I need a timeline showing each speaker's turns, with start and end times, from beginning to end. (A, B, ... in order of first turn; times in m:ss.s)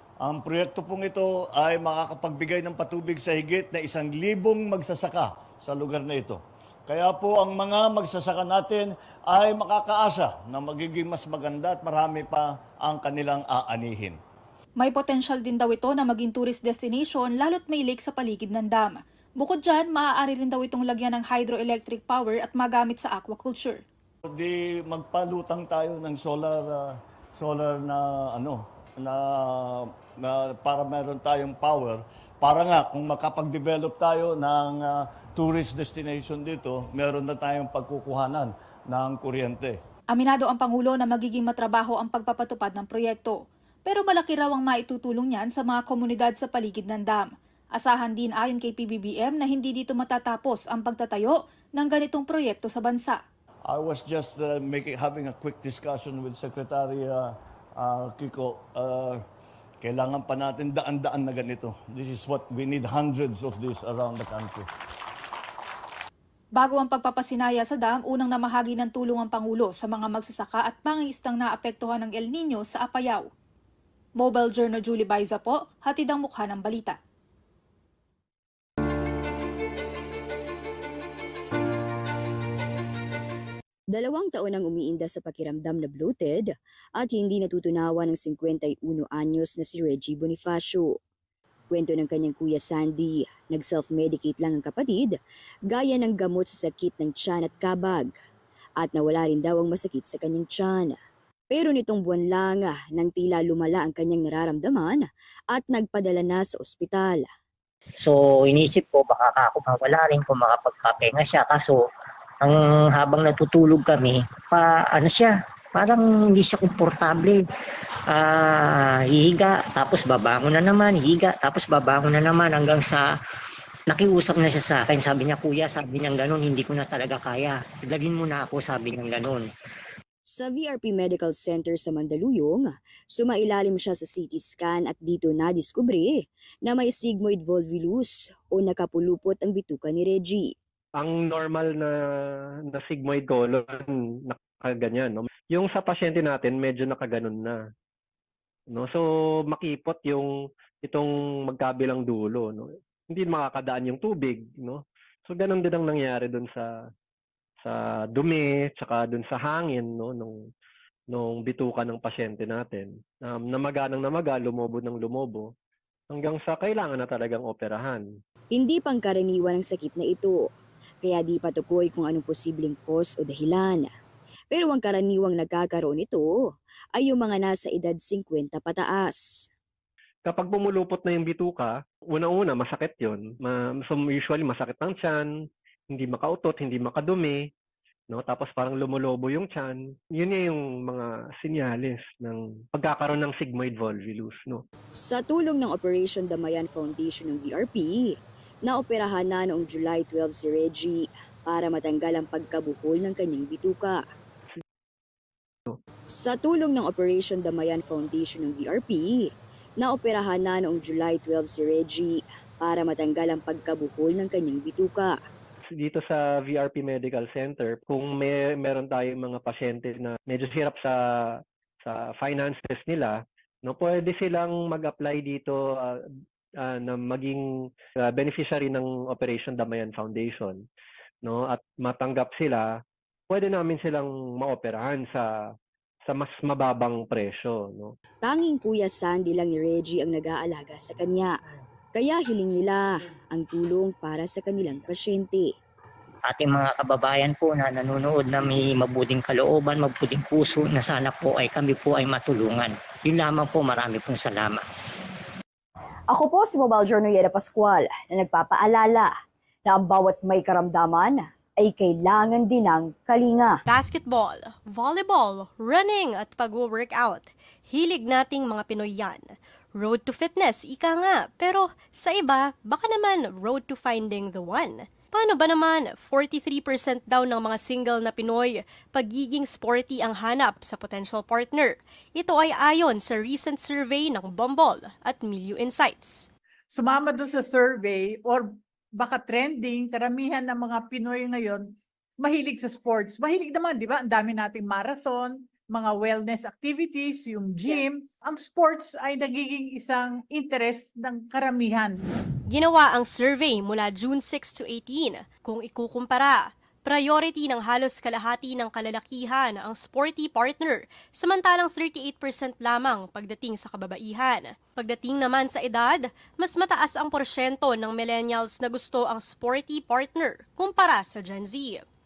0:00.2-0:14.2 A
0:14.8-0:23.8 B
0:24.3-0:39.8 A
0:40.1-0:53.2 B
0:53.7-0:59.2 A
0:59.8-1:04.7 A
1:06.6-1:13.3 B
1:14.2-1:17.0 B
1:23.9-1:31.0 C
1:31.7-1:35.2 C
1:35.7-1:38.1 C
1:38.8-1:41.0 C
1:41.5-1:47.3 C
1:48.0-1:51.8 D
1:52.4-1:57.4 D
1:58.1-2:03.0 D
2:03.9-2:09.4 D
2:10.3-2:20.5 C
2:21.0-2:21.9 E
2:22.7-2:27.6 E
2:28.7-2:30.3 E
2:30.8-2:36.7 E
2:37.6-2:40.4 E
2:41.1-2:45.5 E
2:46.1-2:48.0 E
2:48.5-2:50.4 C
2:51.0-2:53.9 C
2:54.5-2:56.3 C
2:57.0-2:59.2 C
3:00.2-3:05.3 E
3:05.9-3:07.4 E
3:08.1-3:14.6 E
3:15.0-3:18.1 C
3:18.7-3:24.0 C
3:26.2-3:29.3 C
3:29.8-3:35.2 C
3:35.8-3:40.9 E
3:41.8-3:45.9 E
3:46.6-3:47.4 E
3:48.1-3:50.6 E
3:51.2-3:52.7 E
3:53.3-3:55.3 E
3:56.1-3:57.9 E
3:58.2-4:01.3 C
4:02.0-4:05.5 C
4:06.3-4:14.6 D
4:16.1-4:19.1 C
4:19.6-4:23.6 C
4:23.7-4:46.3 F
4:46.7-5:02.0 G
5:02.5-5:21.8 F